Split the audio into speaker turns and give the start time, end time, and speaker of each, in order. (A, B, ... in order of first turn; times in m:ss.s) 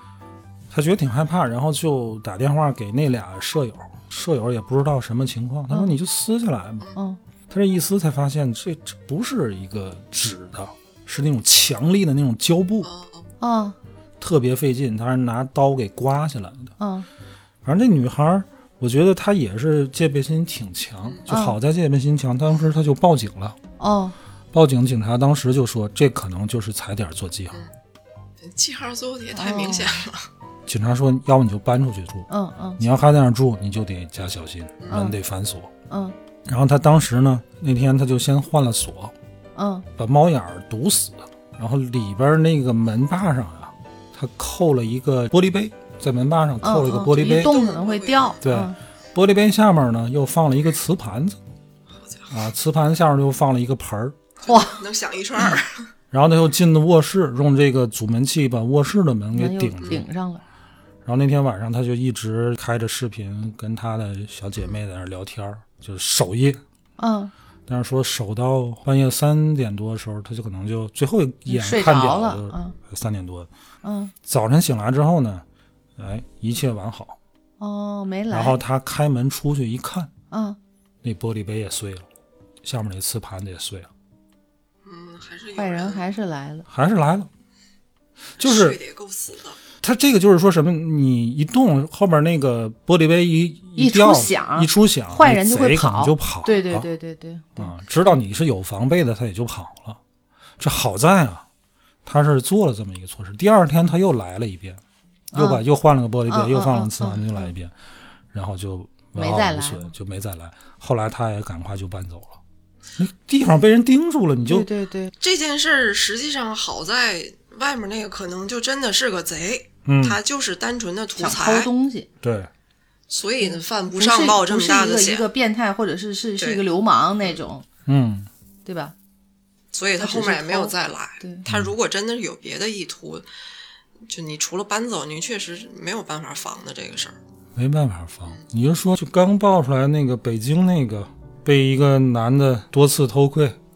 0:00.7-0:06.9 A
0:07.0-0:07.2 B
0:07.5-0:12.9 A
0:12.8-0:13.3 C
0:13.4-0:13.8 B
0:14.2-0:16.7 A
0:16.8-0:17.1 B
0:17.6-0:23.6 A
0:21.3-0:21.6 B
0:23.8-0:24.2 B
0:24.5-0:27.6 A
0:28.4-0:30.3 C
0:29.3-0:30.0 B
0:30.7-0:35.7 A
0:32.3-0:32.8 B
0:34.8-0:35.1 C
0:34.9-0:35.2 B
0:35.9-0:36.2 B
0:36.5-0:39.1 A
0:39.6-0:39.9 B
0:40.0-0:47.6 A
0:46.6-0:48.8 B
0:47.2-0:48.4 C
0:48.4-0:51.4 A
0:52.0-0:52.3 C
0:52.3-0:54.2 A
0:54.4-0:55.9 C
0:54.4-0:54.8 B
0:56.1-1:00.1 A
0:59.3-1:00.4 B
1:01.0-1:06.6 A
1:07.0-1:07.3 B
1:07.7-1:13.5 A
1:11.5-1:12.8 B
1:13.8-1:14.1 B
1:14.3-1:15.4 A
1:16.0-1:17.2 A
1:17.6-1:18.6 B
1:18.3-1:20.1 A
1:20.3-1:20.6 B
1:21.0-1:22.1 A
1:22.6-1:23.9 A
1:24.8-1:26.0 C
1:25.6-1:26.7 B
1:26.7-1:27.3 A
1:28.4-1:29.6 C
1:28.4-1:28.8 A
1:29.8-1:36.9 A
1:33.8-1:38.1 B
1:37.6-1:40.0 A
1:40.6-1:41.5 A
1:42.0-1:44.8 A
1:45.3-1:45.6 B
1:45.3-1:47.7 A
1:46.3-1:47.5 B
1:48.3-1:52.4 A
1:49.2-1:49.9 B
1:53.0-1:54.7 A
1:54.5-1:55.1 B
1:55.2-2:01.7 C
1:59.9-2:00.2 A
2:01.2-2:02.1 B
2:02.2-2:02.5 A
2:03.1-2:05.3 C
2:03.4-2:07.7 B
2:06.4-2:06.6 C
2:07.9-2:08.3 A
2:08.6-2:09.0 B
2:09.7-2:13.2 C
2:10.0-2:11.5 B
2:11.5-2:11.7 A
2:14.1-2:17.2 C
2:17.6-2:23.6 A